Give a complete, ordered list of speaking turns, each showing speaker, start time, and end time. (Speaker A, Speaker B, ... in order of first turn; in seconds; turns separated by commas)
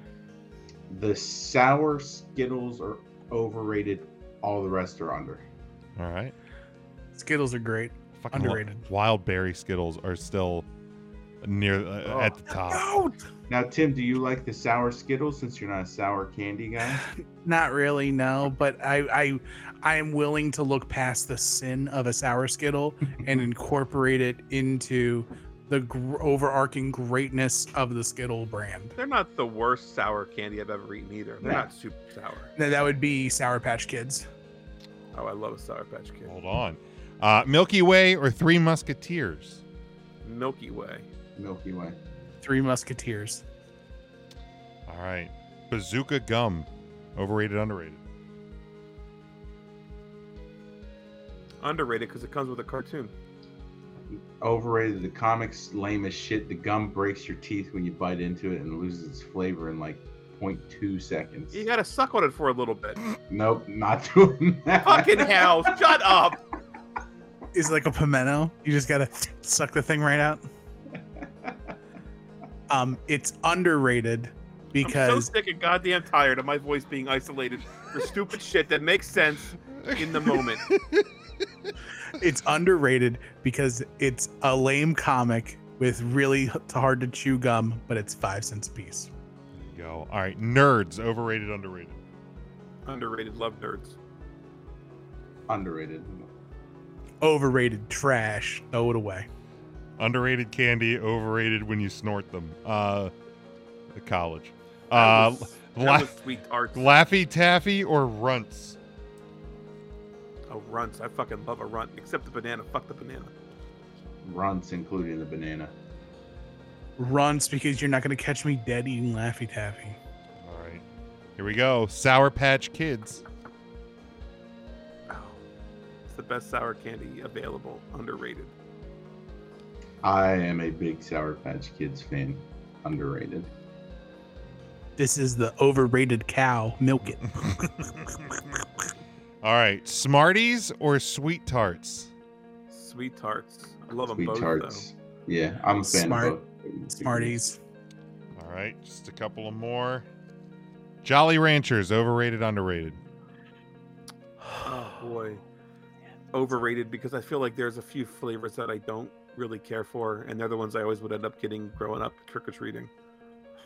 Speaker A: 0.9-5.5, Speaker B: 6.0-6.3, Speaker C: 7.1-8.9, Speaker B: 8.2-10.7, Speaker B: 11.4-12.9, Speaker A: 12.0-12.4, Speaker C: 12.5-13.2, Speaker A: 13.5-17.1, Speaker C: 17.1-28.9, Speaker D: 29.0-32.5, Speaker A: 31.4-31.7, Speaker C: 32.6-34.3, Speaker D: 35.1-36.3, Speaker B: 36.3-39.6, Speaker D: 40.2-41.0, Speaker A: 41.4-42.0, Speaker C: 42.4-43.4, Speaker B: 44.9-48.0, Speaker D: 51.6-53.1, Speaker A: 54.4-61.6, Speaker D: 61.5-63.0, Speaker A: 63.3-65.8, Speaker D: 64.8-66.4, Speaker C: 67.5-70.4, Speaker C: 72.7-75.3, Speaker D: 74.8-80.7, Speaker B: 79.7-81.1, Speaker C: 82.2-89.1, Speaker B: 89.5-92.0, Speaker D: 92.9-94.0, Speaker A: 95.5-96.3, Speaker C: 97.2-99.3, Speaker B: 100.0-103.1, Speaker B: 103.9-106.2, Speaker D: 104.9-106.9, Speaker B: 106.7-108.8, Speaker D: 110.5-113.3, Speaker A: 114.2-115.7, Speaker C: 117.0-120.0, Speaker B: 120.4-120.8, Speaker B: 121.4-123.2, Speaker D: 125.1-125.4, Speaker D: 126.1-128.5, Speaker A: 130.0-133.5, Speaker C: 135.0-137.7, Speaker B: 139.4-142.1, Speaker D: 142.7-144.9, Speaker A: 144.1-147.4, Speaker C: 145.8-146.4, Speaker C: 146.9-147.6, Speaker B: 148.3-150.1, Speaker B: 151.0-153.0, Speaker D: 154.6-155.4, Speaker D: 156.3-162.9